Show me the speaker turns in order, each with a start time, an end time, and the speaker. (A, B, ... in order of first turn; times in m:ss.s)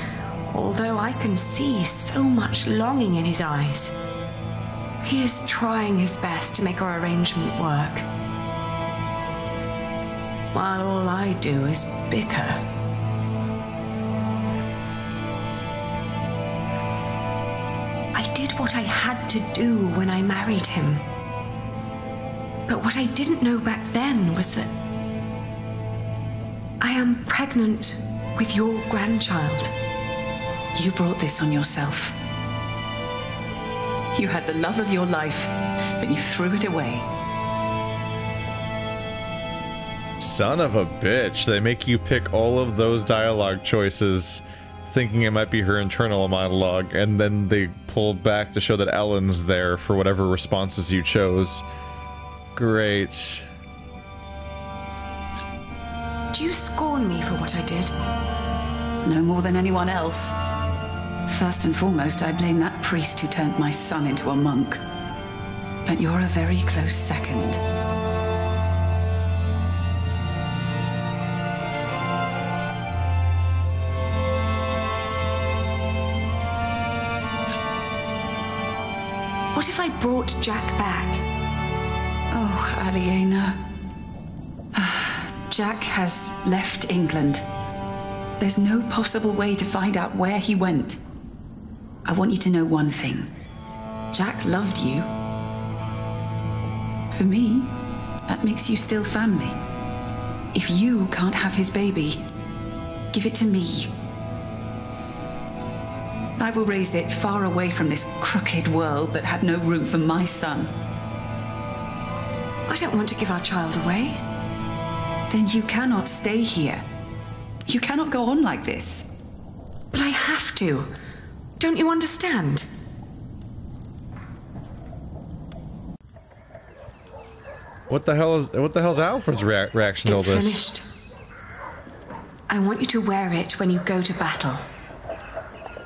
0:00.5-0:03.9 A
0:05.0-0:08.0 A
0:10.5-0:12.6 A
0:18.1-0:21.0 A
0:22.7-0:24.7 A
0:26.8-0:29.7 A
0:30.7-0:32.2 B
0:34.1-0:37.1 B
0:40.2-0:51.6 C
0:52.5-0:53.4 C
0:56.3-0:57.9 A
0:59.0-1:00.3 B
1:01.3-1:04.8 B
1:05.8-1:07.6 B
1:19.5-1:21.2 A
1:22.3-1:23.6 B
1:24.7-1:27.4 B
1:28.4-1:31.0 B
1:32.0-1:33.3 B
1:34.1-1:35.1 B
1:37.2-1:37.8 B
1:38.3-1:39.6 B
1:40.5-1:42.2 B
1:43.1-1:43.9 B
1:46.4-1:50.7 B
1:52.7-1:54.2 A
1:55.3-1:56.8 B
1:57.7-1:59.1 B
1:59.9-2:00.9 A
2:01.6-2:02.7 A
2:07.9-2:10.6 C
2:10.1-2:10.9 A
2:12.5-2:14.6 A